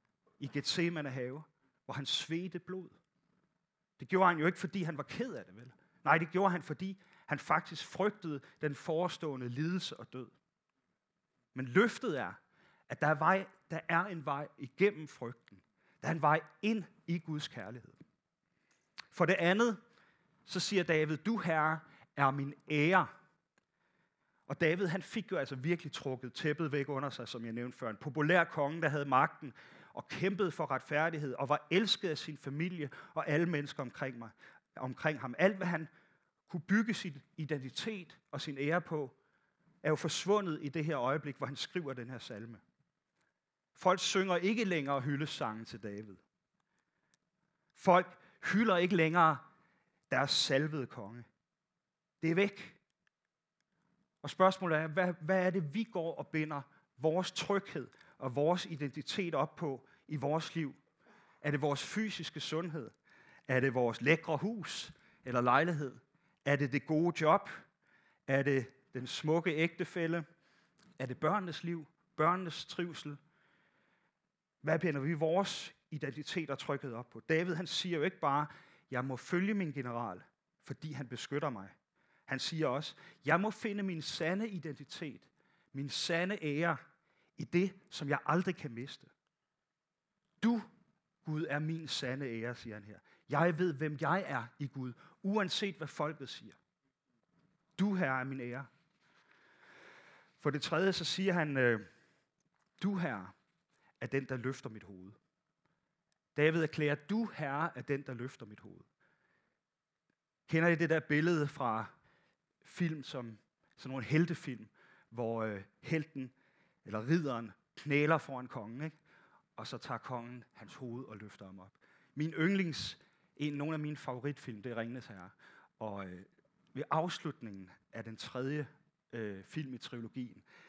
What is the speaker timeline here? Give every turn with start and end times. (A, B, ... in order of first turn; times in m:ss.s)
0:00.4-0:03.0 A
0:04.0-0:10.3 A
0:11.5-0:12.4 A
0:12.9-0:18.0 A
0:19.1-0:19.8 A
0:20.5-0:23.1 A
0:24.5-0:35.9 A
0:36.5-0:39.2 A
0:39.8-0:42.6 A
0:43.8-0:46.2 A
0:47.8-0:49.4 A
0:50.1-0:51.3 A
0:52.2-0:52.8 A
0:54.2-1:00.8 A
1:01.4-1:02.9 A
1:03.5-1:07.5 A
1:08.3-1:10.2 A
1:11.0-1:13.2 A
1:14.6-1:21.7 A
1:22.3-1:26.8 A
1:27.4-1:29.1 A
1:30.4-1:30.7 A
1:31.2-1:36.6 A
1:37.8-1:38.7 A
1:40.4-1:41.9 A
1:42.8-1:43.3 A
1:44.0-1:45.2 A
1:46.4-1:48.9 A
1:50.5-1:51.9 A
1:52.6-1:56.3 A
1:56.8-1:59.0 A
1:59.6-2:10.4 A